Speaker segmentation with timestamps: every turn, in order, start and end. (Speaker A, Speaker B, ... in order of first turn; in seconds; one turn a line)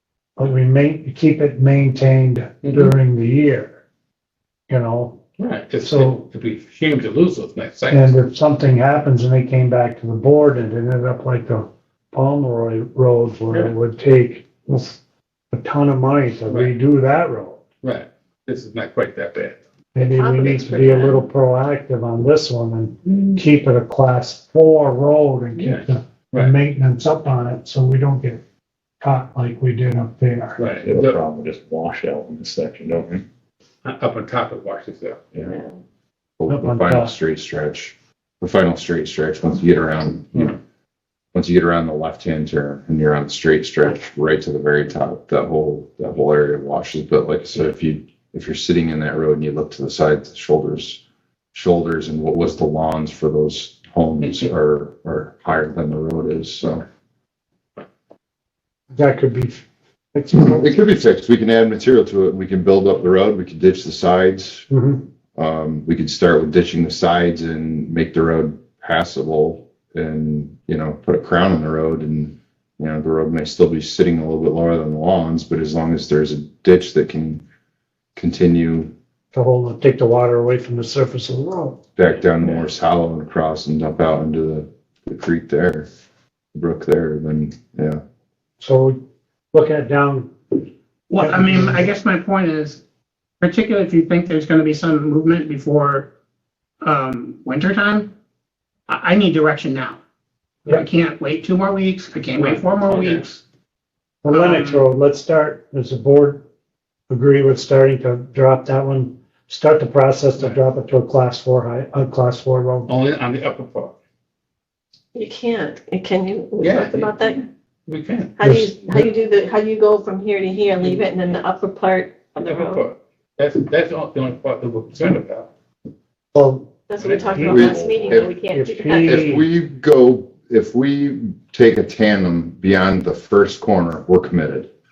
Speaker A: 0.4-3.8
Speaker B: 2.6-2.9
Speaker A: 4.7-5.2
Speaker B: 5.4-8.2
Speaker A: 5.8-6.2
Speaker A: 7.9-15.0
Speaker A: 15.5-17.6
Speaker B: 16.5-16.7
Speaker B: 17.8-19.6
Speaker A: 19.9-28.4
Speaker C: 20.0-21.3
Speaker B: 23.1-23.4
Speaker B: 25.6-26.5
Speaker A: 29.0-30.6
Speaker B: 30.6-31.2
Speaker D: 30.6-33.2
Speaker B: 33.8-35.4
Speaker C: 35.4-35.8
Speaker E: 36.4-40.5
Speaker A: 36.5-37.1
Speaker E: 41.3-51.0
Speaker E: 51.5-56.8
Speaker B: 54.2-54.5
Speaker A: 58.9-60.7
Speaker E: 60.4-64.7
Speaker A: 64.7-65.0
Speaker E: 65.3-77.4
Speaker E: 78.2-78.9
Speaker A: 79.3-81.8
Speaker E: 82.0-85.9
Speaker E: 86.5-88.0
Speaker A: 88.6-89.0
Speaker A: 89.5-90.6
Speaker F: 91.1-92.8
Speaker A: 91.2-91.8
Speaker F: 93.4-96.1
Speaker F: 96.8-98.1
Speaker F: 98.9-100.0
Speaker F: 100.7-103.2
Speaker B: 102.4-103.2
Speaker A: 104.2-106.4
Speaker F: 104.3-104.8
Speaker A: 107.1-112.9
Speaker B: 112.9-113.9
Speaker C: 115.1-117.4
Speaker B: 116.6-118.4
Speaker C: 118.4-122.8
Speaker A: 118.4-119.0
Speaker B: 120.8-121.1
Speaker B: 122.4-125.5
Speaker A: 126.3-126.7
Speaker C: 126.9-129.2
Speaker B: 127.0-127.6
Speaker A: 127.3-127.8
Speaker E: 127.4-128.3
Speaker D: 127.5-128.3
Speaker A: 128.4-129.4
Speaker E: 128.9-134.7